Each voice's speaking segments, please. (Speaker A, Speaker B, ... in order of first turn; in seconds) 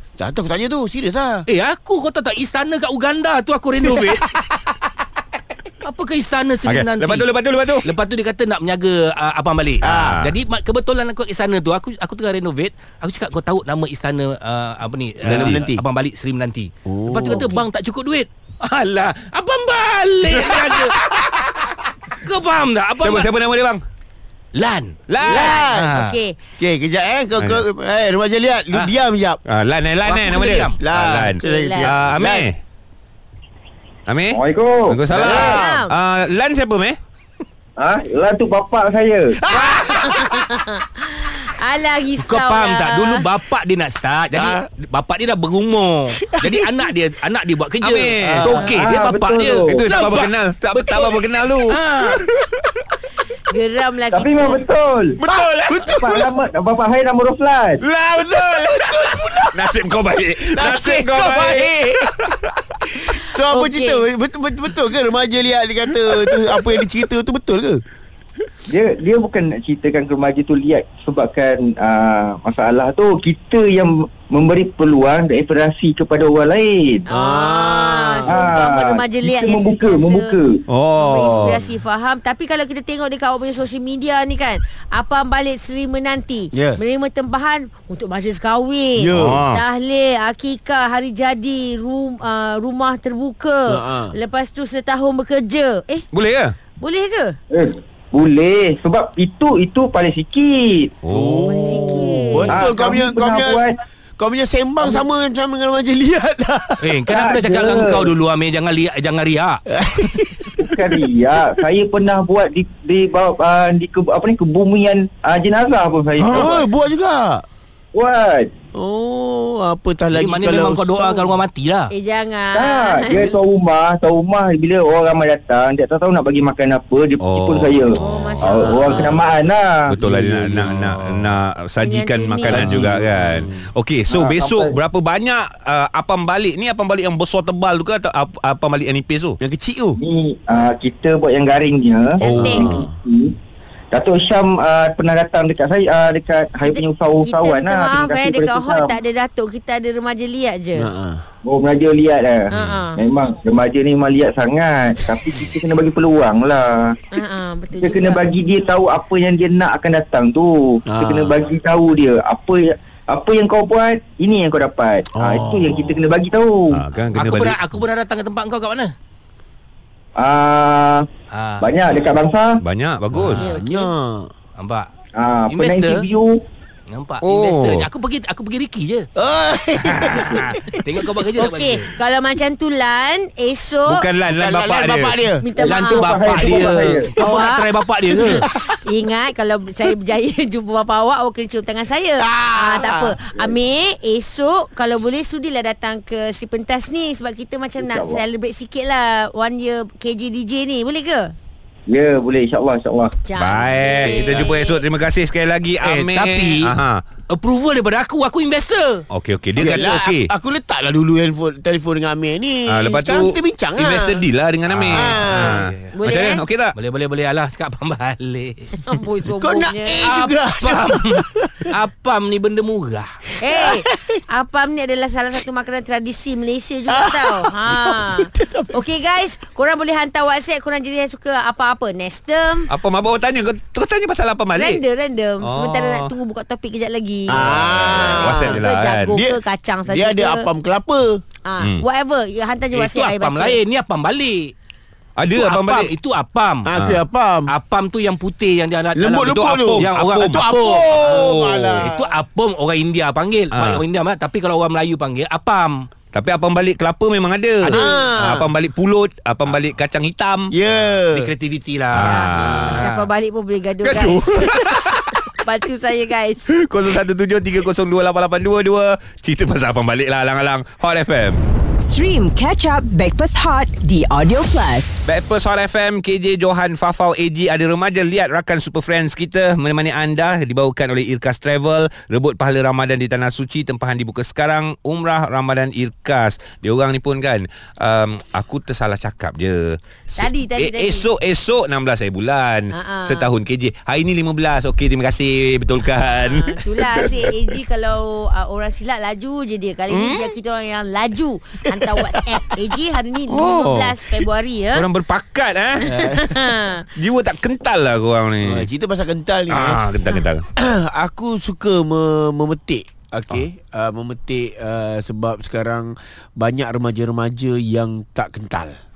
Speaker A: 0.2-1.4, 3.9-4.9, 9.8-10.2, 15.3-15.8, 16.9-17.6, 25.2-26.0, 26.6-29.4, 30.8-32.5, 35.1-35.8, 39.5-40.6, 44.3-44.7, 46.2-46.7, 55.3-56.3, 58.2-59.7, 60.5-61.9, 63.2-67.8, 77.1-78.5, 86.5-86.8, 89.0-89.4, 93.7-94.2, 101.1-103.6, 104.2-106.8, 109.7-111.0, 116.2-117.5, 118.7-121.3, 128.4-129.2, 130.2-131.0, 132.5-133.6, 139.4-140.0, 142.3-142.9, 150.8-151.2, 160.9-161.4, 165.2-166.1, 173.1-174.3, 179.2-181.0, 184.3-185.4, 192.2-193.5, 209.6-214.2, 214.9-215.6, 219.4-221.7, 223.5-224.2, 226.9-228.8, 237.3-241.2, 246.7-247.5, 248.9-252.1, 257.7-258.5, 260.5-261.3, 305.9-306.4, 308.4-309.8, 310.6-318.8
Speaker B: 1.5-4.2, 5.8-7.3, 7.8-21.1, 22.2-23.3, 24.5-25.0, 25.5-26.1, 30.0-30.8, 42.2-51.2, 51.7-52.2, 106.8-109.6, 120.1-121.9, 167.1-168.9, 171.3-171.7, 174.6-174.9, 175.5-176.1, 176.9-179.1, 179.8-181.9, 185.6-188.4, 205.8-206.8, 207.3-209.0, 214.7-215.9, 216.8-218.8, 220.1-223.1, 242.7-244.5, 245.3-246.7, 247.5-255.7, 257.6-258.0, 260.9-262.2
Speaker C: 6.7-7.8, 9.8-10.3, 15.2-15.6, 23.0-23.9, 25.1-25.5, 29.5-32.6, 34.1-37.0, 47.8-48.7, 49.8-52.3, 55.2-56.0, 57.8-62.4, 80.7-81.6, 89.1-89.6, 96.1-96.5, 101.0-101.7, 127.2-127.9, 129.9-139.4, 142.2-142.7, 152.6-152.8, 166.7-167.6, 172.6-173.5, 177.2-177.9, 183.9-185.2, 203.3-207.0, 209.1-210.3, 212.7-216.8, 232.7-234.8, 235.4-236.1, 237.3-239.1, 245.2-245.9, 249.4-250.4, 251.1-251.9, 253.5-253.8, 256.1-260.5, 261.9-262.9, 263.8-265.4, 266.5-271.4, 275.1-297.3, 299.9-300.3, 303.3-304.0, 304.7-305.9, 307.0-308.7, 309.5-310.4
Speaker D: 17.2-17.6, 25.3-26.4, 31.4-31.9, 35.4-35.9, 40.0-43.3, 53.5-54.6, 63.5-64.1, 77.1-80.4, 81.0-96.1, 96.8-97.4, 101.4-102.7, 121.9-123.3, 128.0-128.9, 131.8-132.7, 142.2-142.8, 146.6-150.9, 152.5-153.0, 157.1-158.3, 173.4-173.9, 181.4-184.1, 185.4-201.3, 203.2-204.8, 216.0-216.4, 218.8-220.2, 223.4-232.7, 234.6-240.5, 241.4-243.6, 262.0-264.5, 265.4-266.5, 290.2-291.1, 292.7-293.3, 296.2-304.9, 305.9-306.9
Speaker E: 34.3-35.6, 37.8-40.1, 48.6-49.9, 54.1-55.2, 55.8-57.8, 68.7-77.1, 78.3-80.6, 97.5-101.0, 101.7-103.8, 107.1-108.1, 110.6-116.7, 117.9-118.5, 122.5-130.4, 134.1-134.8, 140.0-143.3, 143.9-149.0, 151.4-157.0, 157.8-166.8, 170.2-171.1, 171.6-172.6, 175.2-176.4, 185.6-187.2, 197.8-198.2, 201.9-203.2
Speaker F: 271.8-275.0